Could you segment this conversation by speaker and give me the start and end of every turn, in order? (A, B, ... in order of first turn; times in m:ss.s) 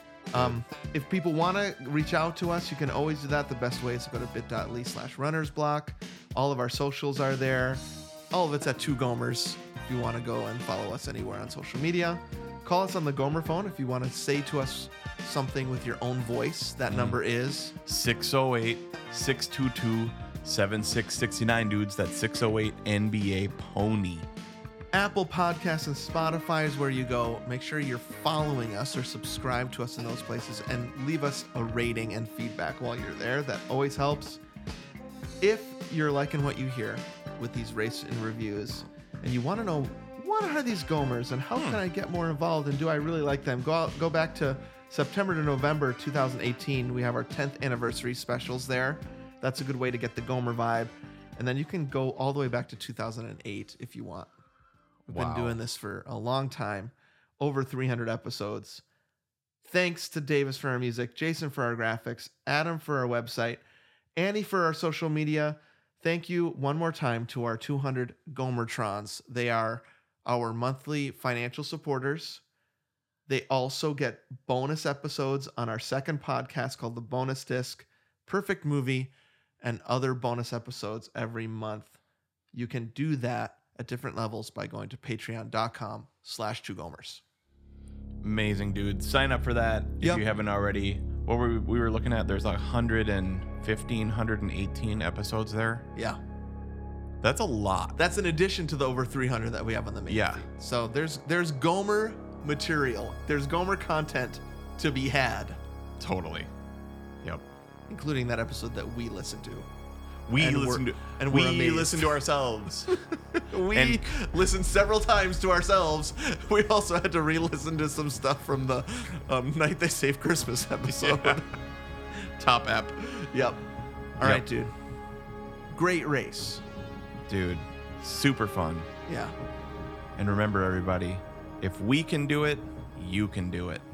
0:00.3-0:17.8 A
0:16.9-0:17.2 B
0:17.8-0:24.3 B
0:24.9-0:34.4 A
0:35.4-0:54.3 A
0:41.6-0:41.8 B
0:55.1-0:55.6 B
0:55.1-0:58.8 A
0:59.6-1:03.6 A
1:04.2-1:12.4 A
1:13.3-1:22.0 A
1:22.5-1:27.2 A
1:28.2-1:35.9 B
1:37.2-1:38.0 B
1:38.0-1:45.6 A
1:40.1-1:40.4 B
1:46.0-1:46.5 B
1:47.9-1:49.7 A
1:50.3-1:53.0 B
1:50.4-1:52.2 A
1:52.9-2:01.5 A
1:53.7-1:54.1 B
2:00.9-2:01.4 B
2:02.1-2:03.0 B
2:03.0-2:03.6 A
2:04.2-2:04.7 A
2:05.7-2:06.6 A
2:07.3-2:08.9 B
2:09.1-2:09.3 A
2:10.2-2:13.9 B